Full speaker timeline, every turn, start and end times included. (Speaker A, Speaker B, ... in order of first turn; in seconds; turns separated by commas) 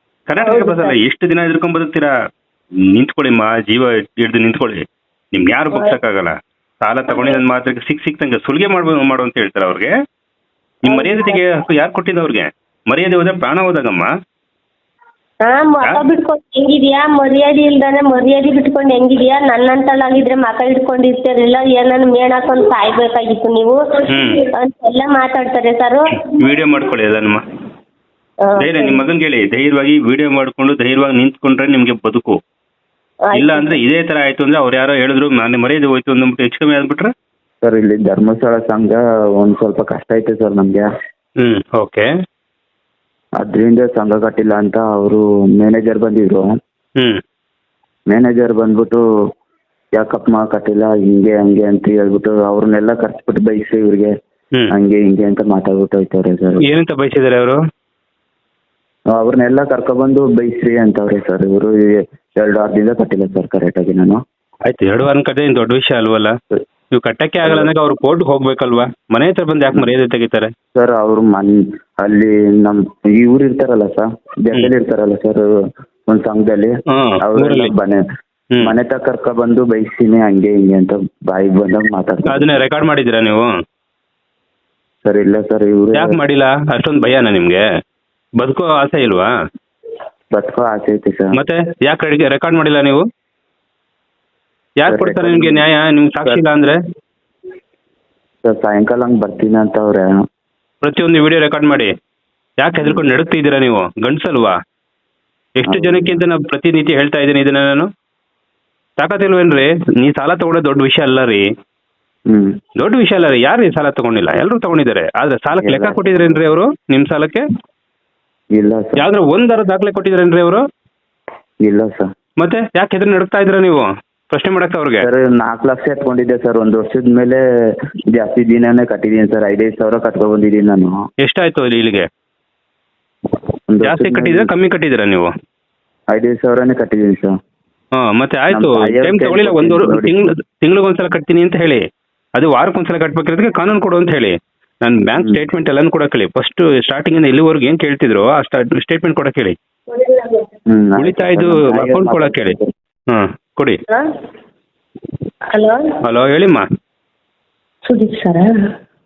Speaker A: 0.3-2.1, Speaker B: 0.4-1.0, Speaker A: 2.9-9.9, Speaker B: 7.1-7.4, Speaker A: 10.8-14.1, Speaker B: 10.9-11.4, Speaker B: 15.4-26.2, Speaker A: 24.1-24.4, Speaker A: 26.2-27.4, Speaker B: 28.4-29.0, Speaker A: 28.6-32.4, Speaker B: 33.3-33.8, Speaker A: 33.3-37.1, Speaker C: 37.6-40.9, Speaker A: 41.4-42.1, Speaker C: 43.4-46.5, Speaker C: 48.1-49.0, Speaker C: 50.0-54.1, Speaker C: 54.7-56.7, Speaker A: 56.6-57.6, Speaker C: 59.1-64.2, Speaker A: 64.7-66.4, Speaker A: 66.9-70.5, Speaker C: 67.4-67.7, Speaker C: 70.8-75.5, Speaker C: 76.1-78.0, Speaker A: 76.9-77.7, Speaker C: 78.6-82.6, Speaker A: 82.3-83.5, Speaker C: 85.0-86.2, Speaker A: 85.9-87.6, Speaker A: 88.4-89.3, Speaker C: 90.3-91.4, Speaker A: 91.3-93.0, Speaker A: 94.8-96.8, Speaker C: 94.9-95.6, Speaker C: 98.4-100.1, Speaker A: 100.8-101.9, Speaker A: 102.6-104.5, Speaker A: 105.6-107.9, Speaker C: 105.7-106.2, Speaker A: 109.0-111.5, Speaker C: 112.3-112.6, Speaker A: 112.8-117.5, Speaker C: 115.6-116.4, Speaker C: 118.5-119.1, Speaker A: 119.0-120.6, Speaker C: 121.6-122.1, Speaker A: 122.4-125.1, Speaker C: 125.0-127.4, Speaker C: 128.1-131.0, Speaker A: 131.2-132.1, Speaker C: 133.7-134.5, Speaker A: 133.8-135.3, Speaker C: 136.1-137.3, Speaker A: 137.9-141.8, Speaker C: 138.5-140.1, Speaker A: 142.3-149.6, Speaker B: 149.9-150.5, Speaker C: 150.7-152.7, Speaker A: 151.0-152.6, Speaker A: 153.1-153.8, Speaker B: 155.5-155.8, Speaker A: 156.0-156.7, Speaker B: 157.8-158.5